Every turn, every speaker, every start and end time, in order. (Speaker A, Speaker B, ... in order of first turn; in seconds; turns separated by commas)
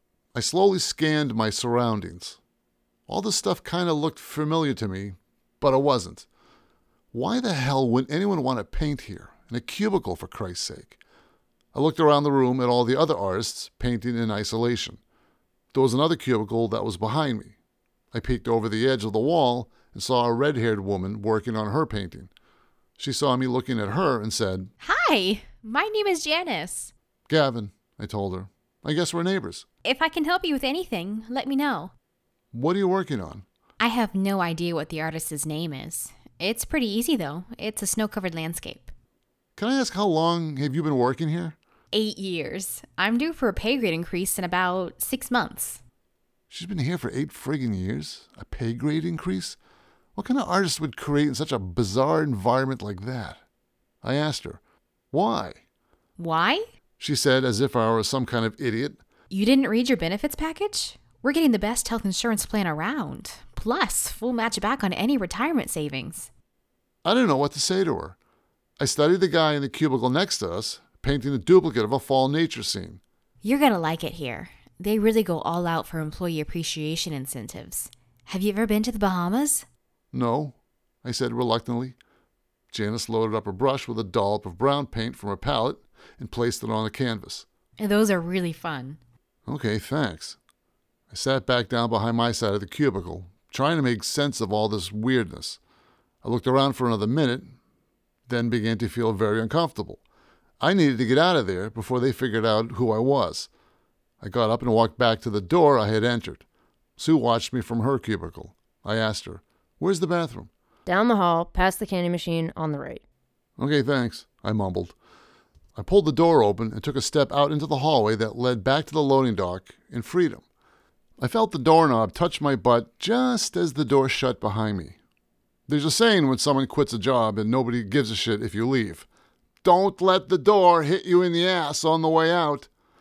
Speaker A: 0.3-2.4, Speaker A: 3.1-6.3, Speaker A: 7.1-11.0, Speaker A: 11.7-15.0, Speaker A: 15.7-17.6, Speaker A: 18.1-22.3, Speaker A: 23.0-24.7, Speaker B: 24.8-26.9, Speaker A: 27.3-29.7, Speaker B: 29.8-31.9, Speaker A: 32.5-33.5, Speaker B: 33.8-38.9, Speaker A: 39.6-41.6, Speaker B: 41.9-45.8, Speaker A: 46.5-49.6, Speaker A: 50.2-53.4, Speaker A: 54.0-54.6, Speaker A: 55.1-55.6, Speaker B: 56.2-56.6, Speaker A: 57.0-59.0, Speaker B: 59.3-66.3, Speaker A: 67.0-68.2, Speaker A: 68.8-73.0, Speaker B: 73.4-79.7, Speaker A: 80.1-82.0, Speaker A: 82.7-87.5, Speaker B: 87.8-89.0, Speaker A: 89.5-90.4, Speaker A: 91.1-95.6, Speaker A: 96.2-97.5, Speaker A: 98.3-100.0, Speaker A: 100.6-103.5, Speaker A: 104.2-106.5, Speaker A: 107.0-110.5, Speaker C: 110.9-113.0, Speaker A: 113.6-115.0, Speaker A: 115.8-120.5, Speaker A: 121.2-125.0, Speaker A: 125.7-129.1, Speaker A: 129.6-132.7